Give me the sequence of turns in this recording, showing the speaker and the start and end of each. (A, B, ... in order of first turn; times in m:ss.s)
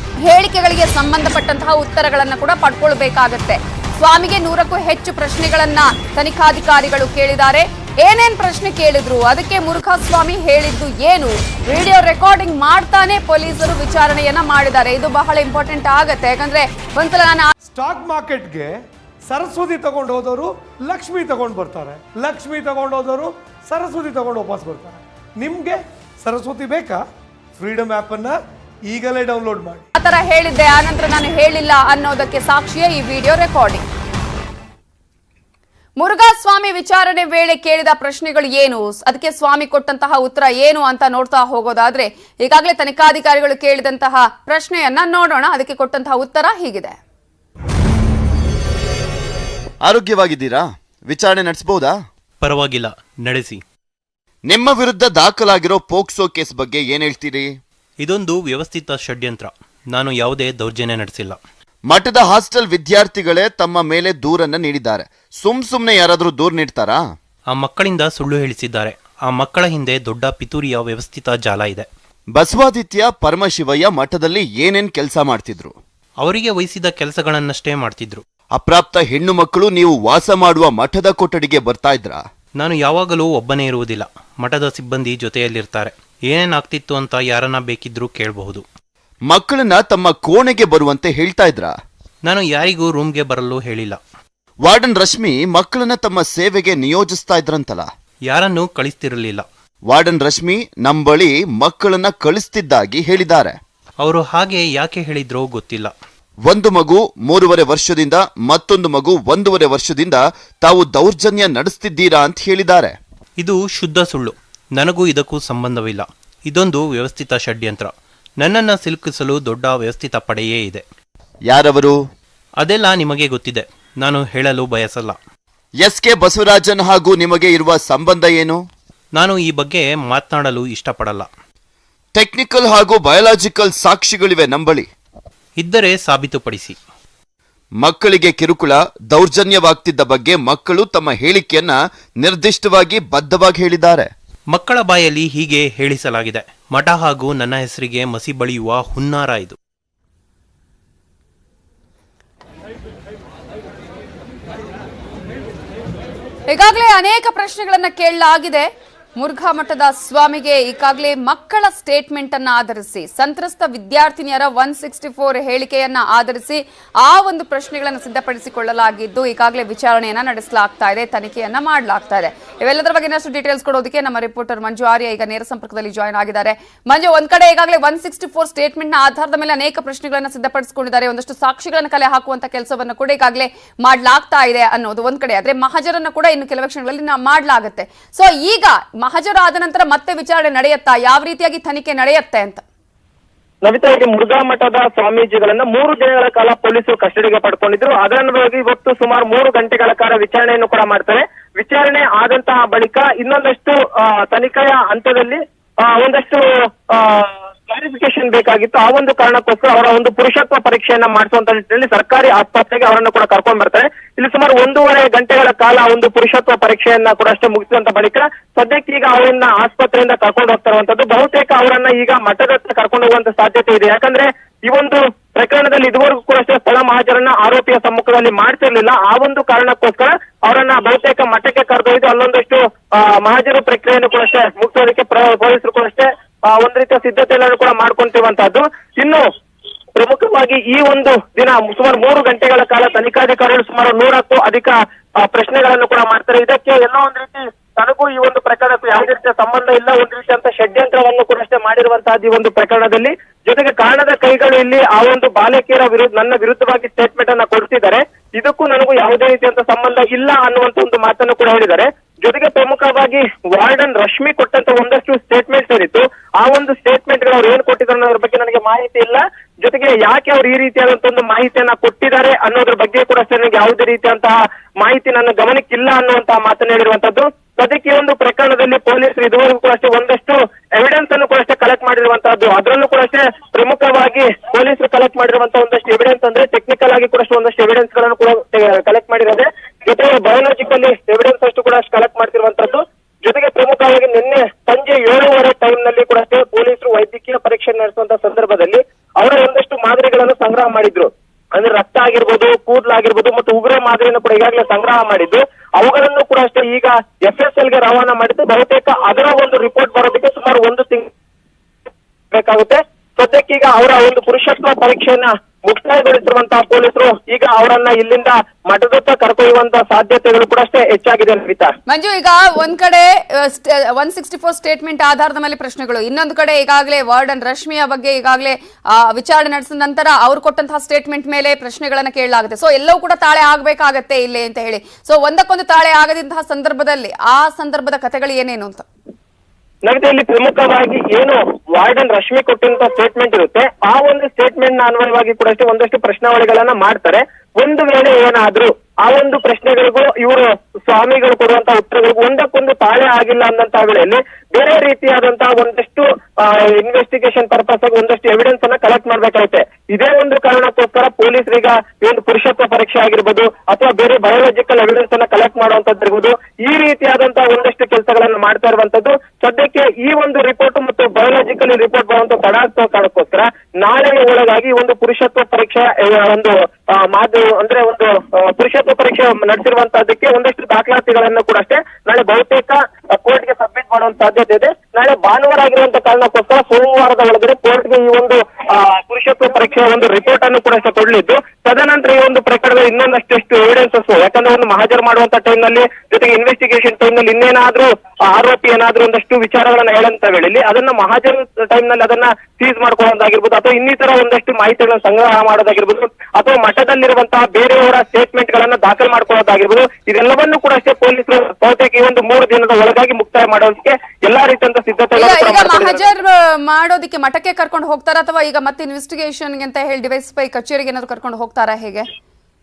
0:00.2-0:17.5 A
0:17.7-0:27.0 B
0:27.6-0:29.8 B
0:30.0-0:33.9 A
0:36.0-0:47.0 A
0:49.8-0:51.9 C
0:52.4-0:53.6 D
0:54.5-0:57.5 C
0:58.0-1:01.4 D
1:01.9-1:07.0 C
1:07.5-1:11.9 D
1:12.4-1:15.8 C
1:16.2-1:18.2 D
1:18.6-1:22.2 C
1:22.6-1:28.6 D
1:29.3-1:31.7 C
1:32.2-1:34.0 D
1:34.6-1:37.9 C
1:38.3-1:39.4 D
1:39.9-1:43.6 C
1:44.0-1:45.9 D
1:46.5-1:52.9 C
1:53.4-2:00.8 D
2:01.5-2:02.0 C
2:02.6-2:05.2 D
2:05.8-2:08.6 C
2:09.2-2:11.3 D
2:12.2-2:14.9 C
2:15.6-2:16.8 D
2:17.8-2:24.1 C
2:24.5-2:29.6 D
2:36.5-3:12.6 A
3:13.6-3:59.2 E
4:00.0-5:11.1 E
5:12.3-5:21.7 E
5:21.9-5:38.9 A
5:39.8-6:16.5 E
6:17.1-6:56.1 E
6:55.2-7:02.1 A